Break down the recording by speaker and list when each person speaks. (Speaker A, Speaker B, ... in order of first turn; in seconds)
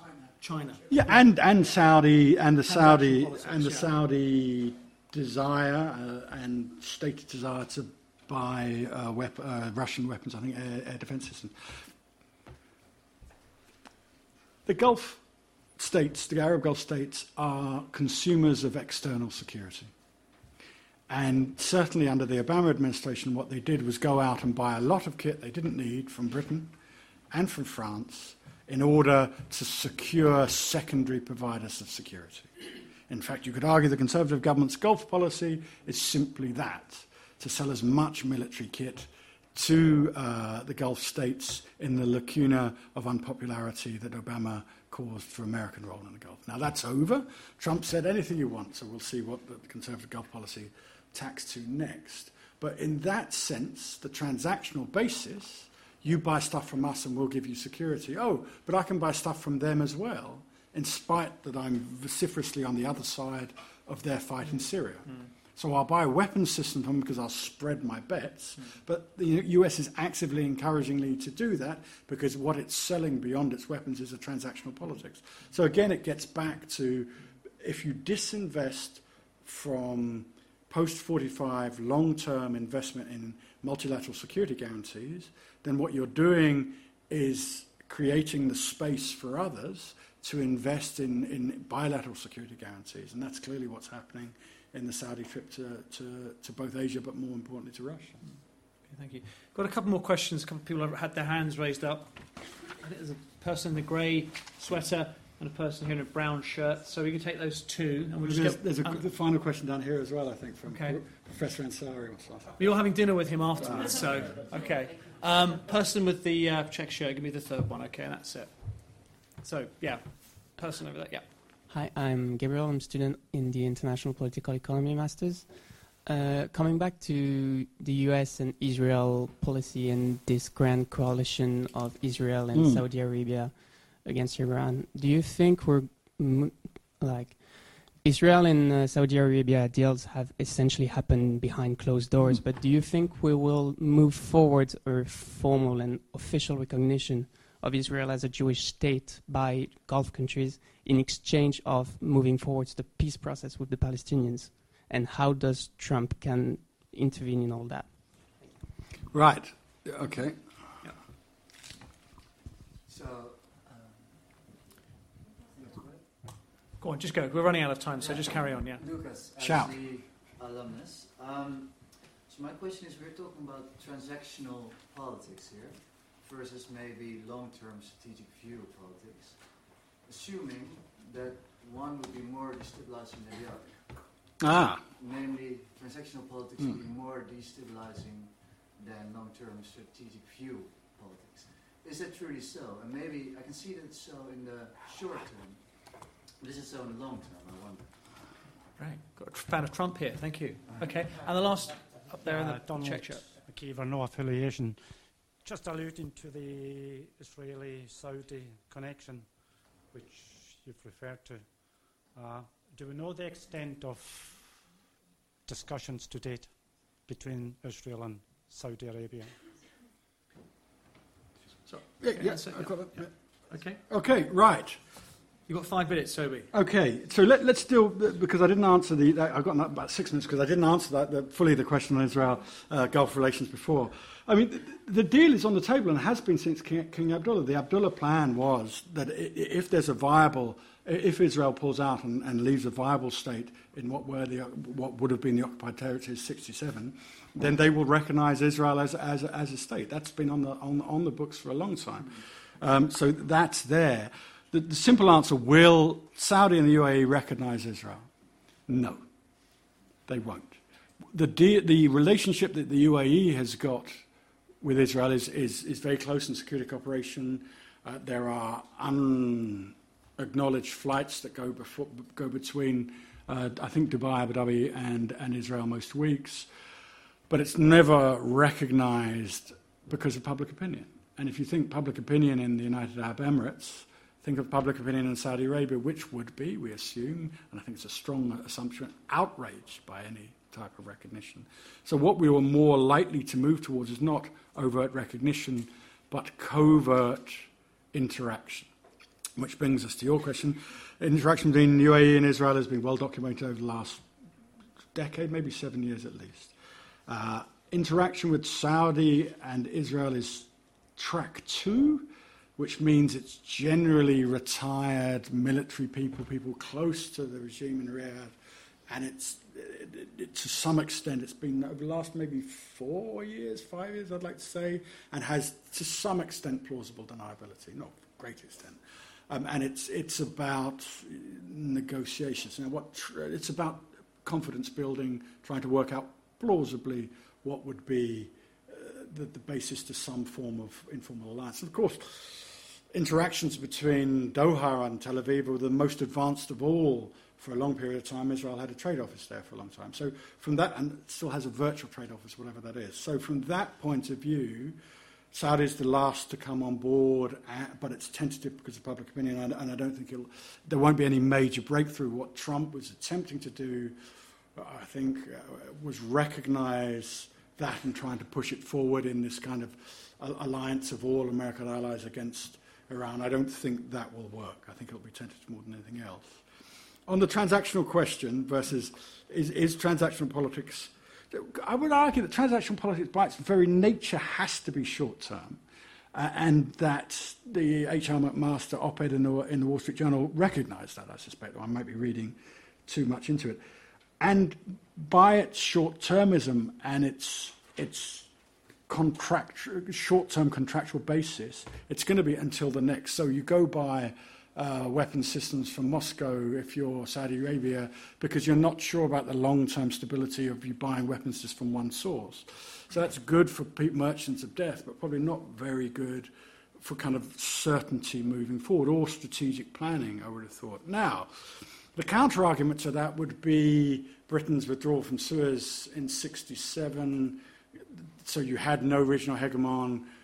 Speaker A: 0.3-1.3, 2.6-3.9, 98.8-109.0, 110.7-111.0, 112.6-121.2, 166.8-168.8, 198.8-203.3, 221.7-223.8, 225.5-226.5
Speaker B: 0.9-11.8, 14.7-15.2, 15.8-19.9, 21.1-26.7, 27.3-32.5, 33.1-98.2, 108.2-112.6, 113.6-114.0, 132.5-132.8, 159.1-160.4, 169.4-169.7, 184.4-184.8, 222.0-223.1, 223.9-224.8, 226.5-258.1, 258.7-259.0, 260.1-260.6, 261.1-264.0, 264.6-276.5, 277.3-298.7, 299.4-304.0, 304.9-306.5, 307.1-318.3, 318.9-328.8, 329.3-354.8, 355.3-364.0, 364.5-376.4, 377.1-385.6, 386.1-393.6, 394.2-398.3, 398.9-427.4, 428.2-430.1
Speaker C: 121.7-158.3
Speaker D: 162.9-164.6, 165.4-166.1, 168.0-184.1, 185.0-197.9
Speaker E: 202.2-204.8, 205.4-209.3, 209.9-211.5, 212.1-214.5, 215.4-216.5, 217.1-219.3